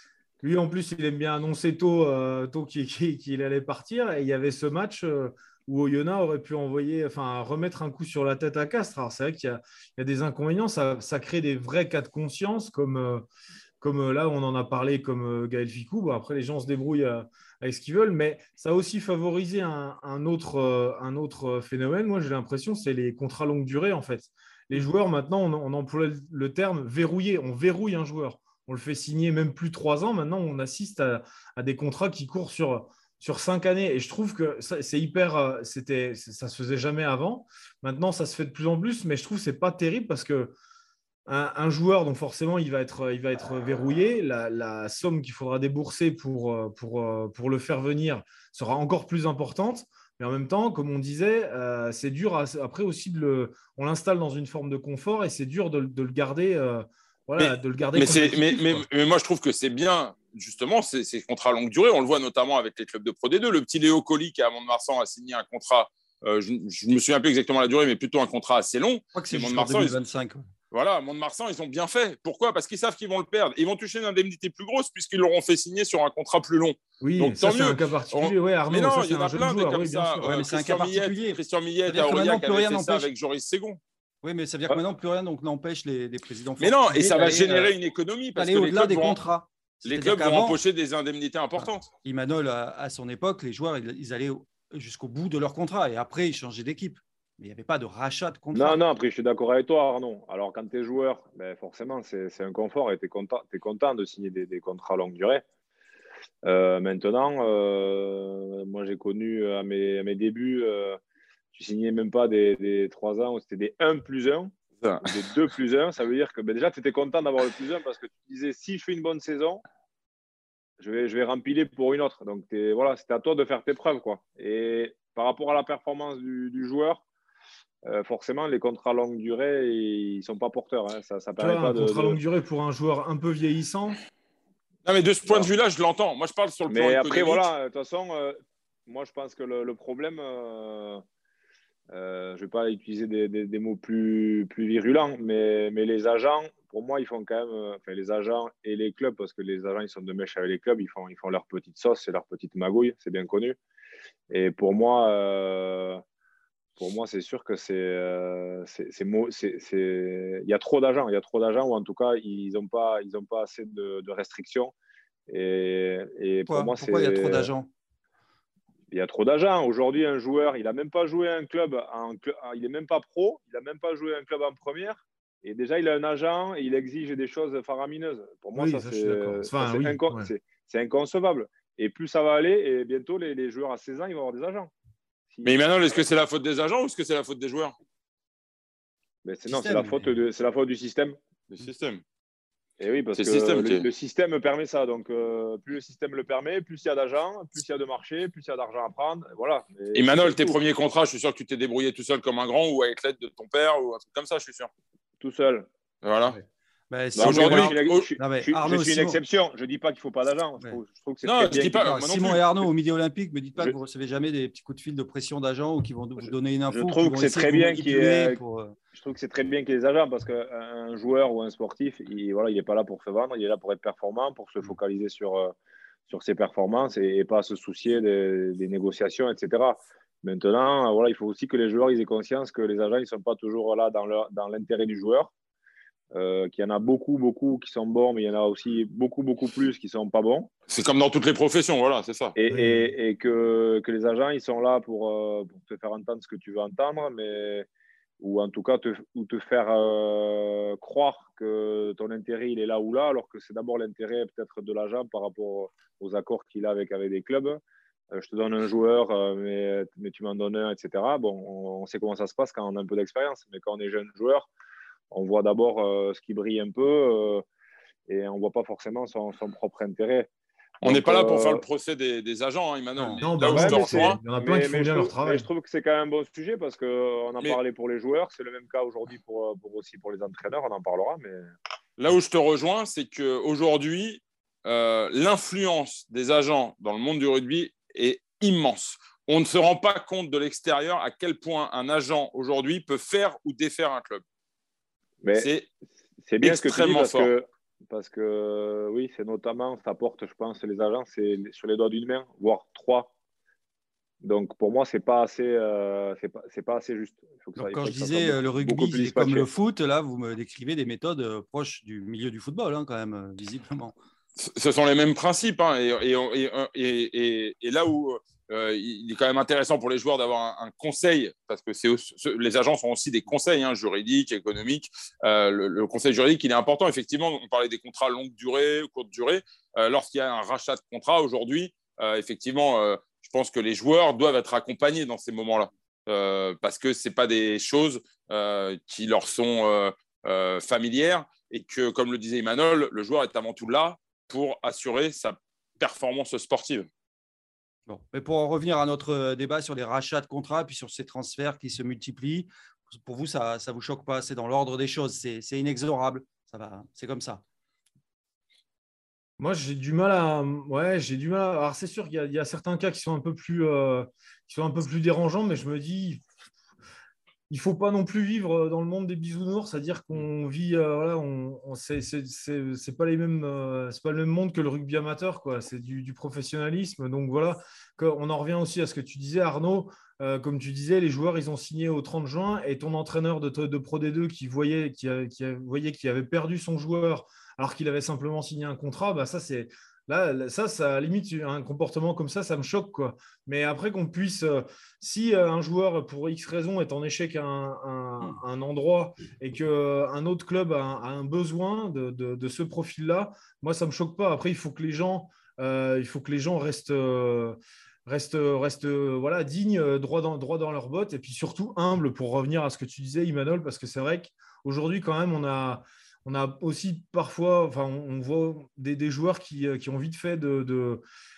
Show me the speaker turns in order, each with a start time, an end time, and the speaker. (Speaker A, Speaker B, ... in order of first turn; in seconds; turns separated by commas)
Speaker A: 0.4-13.2, Speaker A: 13.8-40.5, Speaker A: 41.2-58.8, Speaker B: 57.4-70.0, Speaker C: 69.1-70.5, Speaker B: 70.7-83.8, Speaker A: 77.0-80.4, Speaker C: 80.2-83.1, Speaker C: 84.2-87.7, Speaker B: 86.6-89.2, Speaker C: 88.3-90.6, Speaker B: 89.8-91.9, Speaker C: 91.6-98.8, Speaker D: 98.5-105.4, Speaker D: 106.4-111.0, Speaker D: 111.5-119.6, Speaker D: 120.8-127.0, Speaker D: 127.8-132.2, Speaker A: 131.4-134.0, Speaker B: 134.8-137.5, Speaker D: 136.7-141.0, Speaker D: 141.9-153.6, Speaker D: 154.3-156.0, Speaker D: 156.8-164.7, Speaker D: 165.3-167.5, Speaker C: 166.4-167.7, Speaker D: 168.9-184.7, Speaker A: 178.5-180.3, Speaker D: 185.3-185.6, Speaker B: 185.4-187.7, Speaker D: 189.2-191.2, Speaker C: 189.5-190.2, Speaker B: 191.5-192.0, Speaker D: 192.8-200.6, Speaker B: 193.2-193.8, Speaker B: 199.9-204.7, Speaker D: 205.2-205.7, Speaker B: 206.0-206.4, Speaker C: 206.9-209.2, Speaker D: 207.2-211.9, Speaker B: 207.2-208.1, Speaker B: 211.2-212.4, Speaker C: 211.8-218.8, Speaker D: 216.7-218.4, Speaker D: 218.9-225.5, Speaker D: 226.1-235.3, Speaker D: 236.1-240.5, Speaker B: 240.7-242.3, Speaker D: 242.3-247.7, Speaker A: 242.5-242.9, Speaker D: 248.2-257.6, Speaker D: 258.1-264.5, Speaker D: 265.1-267.4, Speaker D: 268.1-270.3, Speaker B: 270.8-274.2, Speaker D: 270.8-271.6, Speaker A: 273.1-275.5, Speaker D: 273.4-281.4, Speaker B: 282.0-294.2, Speaker D: 295.2-295.5, Speaker B: 295.3-295.7, Speaker D: 296.2-303.1, Speaker B: 296.4-297.3, Speaker D: 304.2-309.5, Speaker C: 307.6-313.9, Speaker B: 314.4-346.9, Speaker C: 347.9-357.4, Speaker A: 359.4-366.2, Speaker A: 367.5-421.0